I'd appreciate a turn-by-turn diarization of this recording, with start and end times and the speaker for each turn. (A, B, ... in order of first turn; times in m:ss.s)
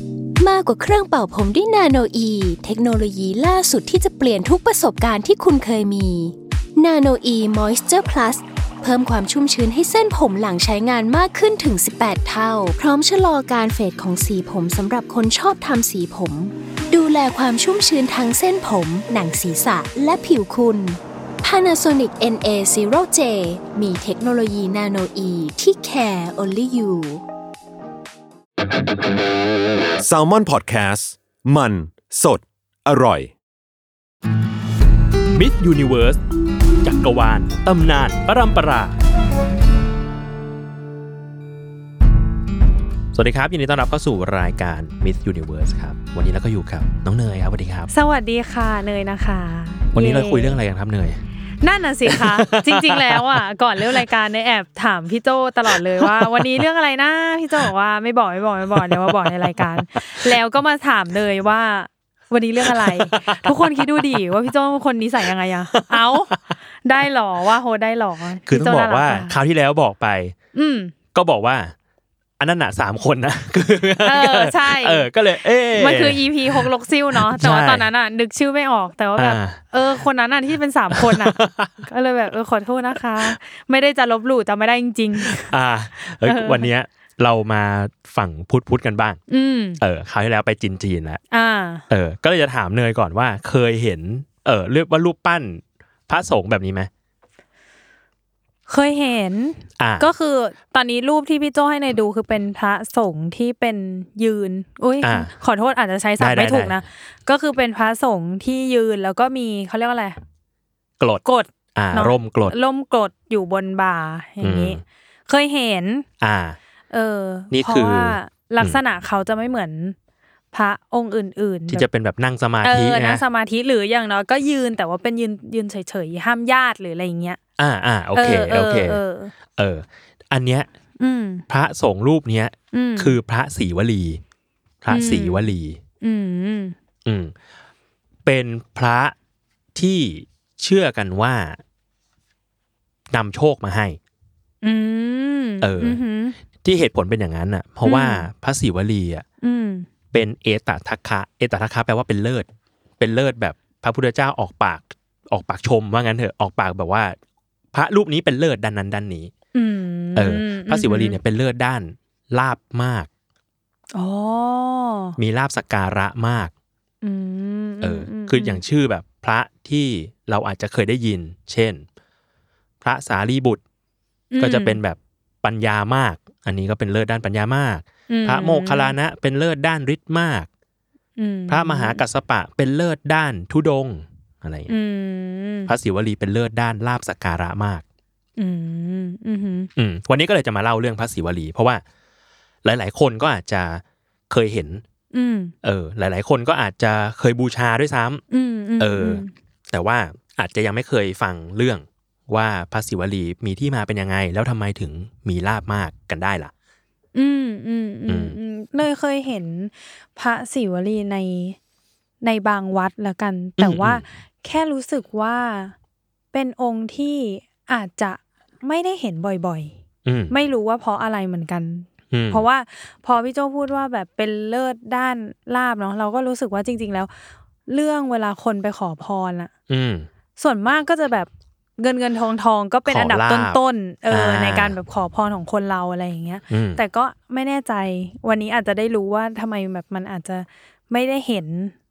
0:00.4-0:27.2 A
0:30.0-0:33.3 B
0:35.3-0:36.2 C
0:36.8-0:39.0 C
0:43.1-0:47.9 C
0:47.9-0:50.6 D
0:49.9-0:51.2 C
0:51.6-1:06.3 D
0:52.0-0:54.1 C
0:55.7-0:56.6 C
0:58.7-1:00.4 C
1:02.6-1:04.3 C
1:05.7-1:06.5 C
1:06.8-1:09.4 D
1:08.4-1:10.3 C
1:10.5-1:10.9 D
1:11.1-1:11.7 C
1:12.4-1:17.9 C
1:14.0-1:15.1 D
1:15.7-1:25.5 D
1:19.2-1:19.6 C
1:20.9-1:21.8 C
1:25.2-1:29.2 C
1:26.0-1:26.7 D
1:29.3-1:29.8 D
1:29.8-1:31.2 C
1:31.3-1:31.8 D
1:31.9-1:36.9 C
1:38.7-1:50.2 D
1:39.8-1:40.1 C
1:45.0-1:45.3 C
1:46.2-1:46.8 C
1:51.2-1:56.0 D
1:51.7-1:52.5 C
1:54.4-1:54.8 C
1:56.2-1:56.6 C
1:56.9-2:00.0 D
1:57.5-1:58.8 C
2:00.5-2:01.9 D
2:01.7-2:03.2 C
2:02.6-2:07.4 D
2:07.6-2:09.0 C
2:08.1-2:09.3 D
2:09.5-2:10.7 C
2:11.0-2:11.4 D
2:11.5-2:14.2 C
2:12.7-2:13.2 D
2:14.8-2:15.8 C
2:14.9-2:16.8 D
2:17.0-2:17.3 C
2:18.2-2:19.1 C
2:19.7-2:21.6 C
2:23.1-2:24.0 C
2:24.6-2:26.4 D
2:25.6-2:26.0 C
2:26.6-2:29.2 C
2:27.8-2:28.3 D
2:29.4-2:29.9 D
2:30.1-2:32.5 C
2:33.0-2:37.2 C
2:37.7-2:39.3 C
2:39.5-2:41.2 D
2:40.2-2:43.1 C
2:43.9-2:45.2 D
2:45.2-2:46.5 C
2:47.0-2:48.6 D
2:47.8-2:51.8 C
2:52.8-2:53.6 C
2:54.3-2:54.8 D
2:54.4-3:00.5 C
2:58.1-2:58.9 D
3:01.2-3:02.0 D
3:01.5-3:04.7 C
3:04.7-3:05.7 D
3:05.7-3:07.8 C
3:08.4-3:09.7 D
3:09.8-3:11.8 C
3:12.6-3:14.8 C
3:15.1-3:15.5 D
3:15.6-3:18.2 C
3:18.3-3:19.3 D
3:18.8-3:26.5 C
3:27.1-3:31.6 D
3:28.1-3:28.4 C
3:32.2-3:35.7 D
3:33.6-3:34.0 C
3:36.3-3:39.8 D
3:40.0-3:40.3 C
3:40.3-3:47.1 D
3:42.1-3:42.4 C
3:47.7-3:49.5 D
3:49.7-3:50.1 C
3:50.4-4:01.7 D
3:52.8-3:54.7 C
3:56.5-3:56.8 C